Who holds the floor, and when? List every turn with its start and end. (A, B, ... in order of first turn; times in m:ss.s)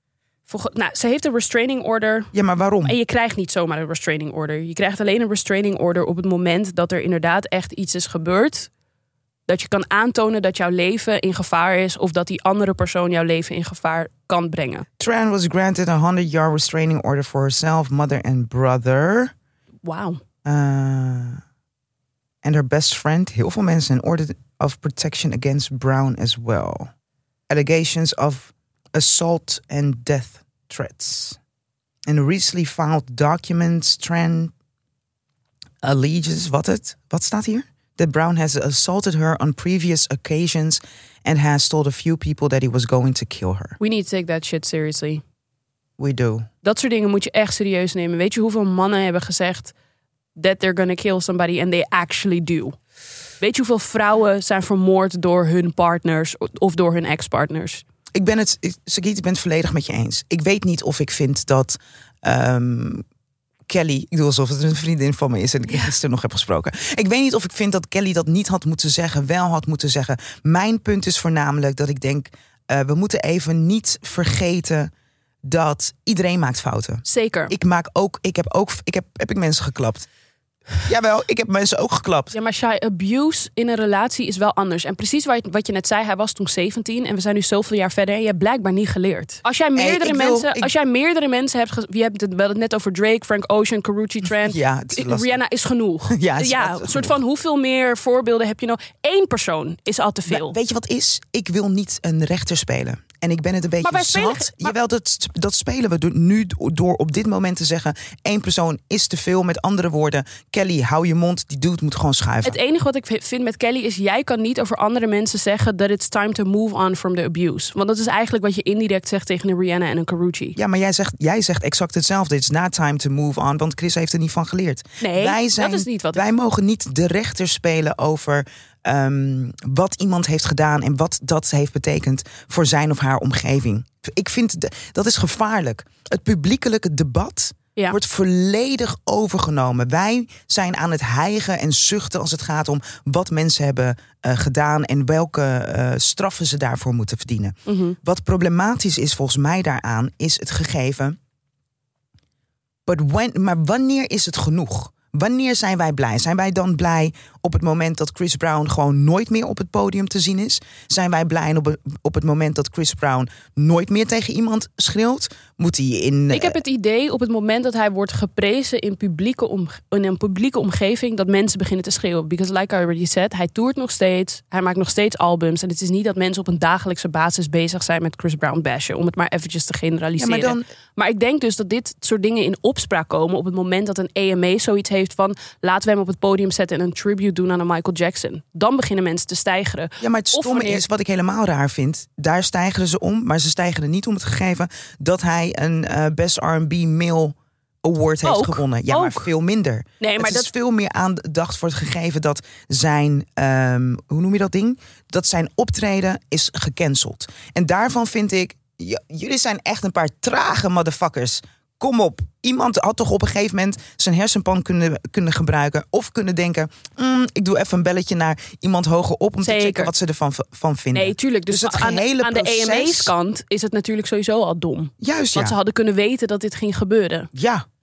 0:00.5-0:02.3 A
0:02.3-0:03.0 B
0:02.8-0:08.7 A
0:09.5-0:14.8 A
0:15.0-0:19.3 B
0:19.8-0:20.2 A
0:20.4-0:21.4 B
0:22.4-0:26.9 B
0:27.5-0:31.4 B
0:32.1-0:34.5 B
0:35.8-0:43.8 B
0:43.8-0:45.2 A
0:46.0-0:46.5 B
0:46.6-0:49.7 A
0:50.4-0:52.8 A
0:53.4-0:57.8 A
0:58.1-1:03.0 B
1:03.7-1:14.9 B
1:15.4-1:20.1 B
1:17.0-1:17.5 A
1:20.8-1:22.3 B
1:22.3-1:40.6 A
1:29.8-1:30.7 B
1:34.4-1:35.4 B
1:36.1-1:37.2 B
1:40.3-1:52.6 B
1:43.8-1:44.7 A
1:52.4-2:00.6 A
2:00.6-2:31.2 B
2:05.0-2:06.2 A
2:27.6-2:28.0 A
2:32.8-2:46.6 B
2:46.3-3:10.8 A
3:00.2-3:00.7 B
3:10.0-3:43.1 B
3:18.2-3:19.3 A
3:20.0-3:20.5 A
3:39.4-3:39.9 A
3:40.9-3:47.3 A
3:45.0-3:45.6 B
3:47.3-3:47.6 B